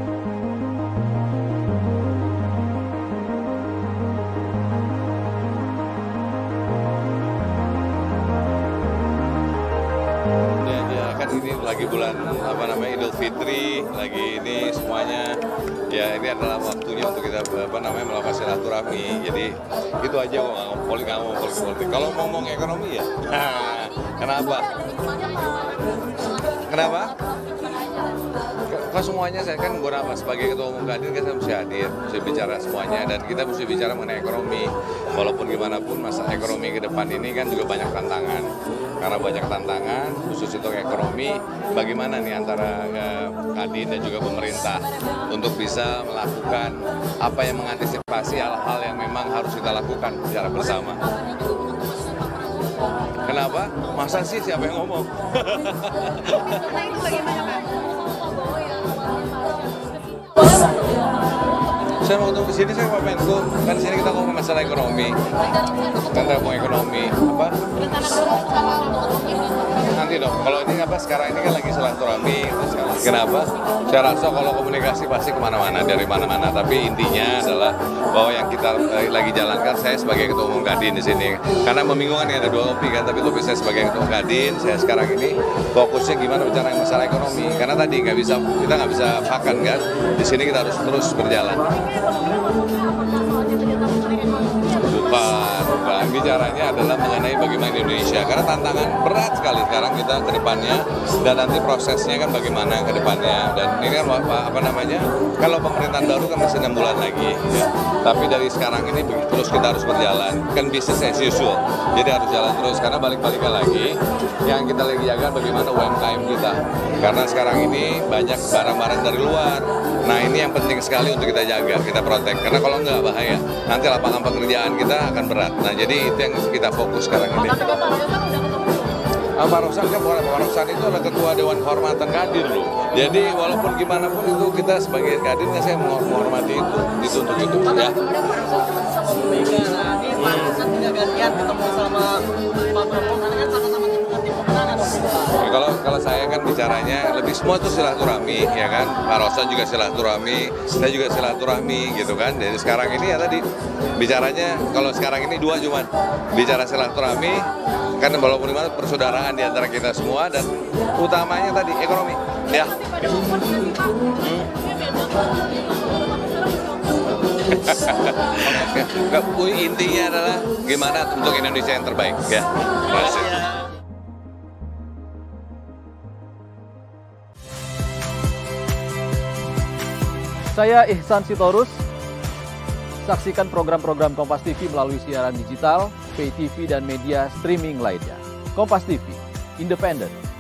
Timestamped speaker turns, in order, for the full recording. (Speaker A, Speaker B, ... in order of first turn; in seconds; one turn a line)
Speaker A: 10.6-24.9
Speaker A: 26.5-27.2
Speaker A: 28.6-51.0
Speaker A: 53.2-56.9
Speaker A: 61.9-67.9
Speaker B: 67.9-69.6
Speaker A: 69.6-91.8
Speaker B: 92.0-94.6
Speaker A: 94.6-127.7
Speaker B: 127.5-129.0
Speaker A: 129.3-138.0
Speaker B: 137.9-145.3
Speaker A: 140.2-140.6
Speaker A: 145.3-153.4
Speaker A: 153.9-162.9
Speaker B: 163.3-163.8
Speaker A: 164.2-164.6
Speaker B: 166.1-166.6
Speaker A: 167.3-173.6
Speaker C: 180.5-181.8
Speaker C: 183.0-190.2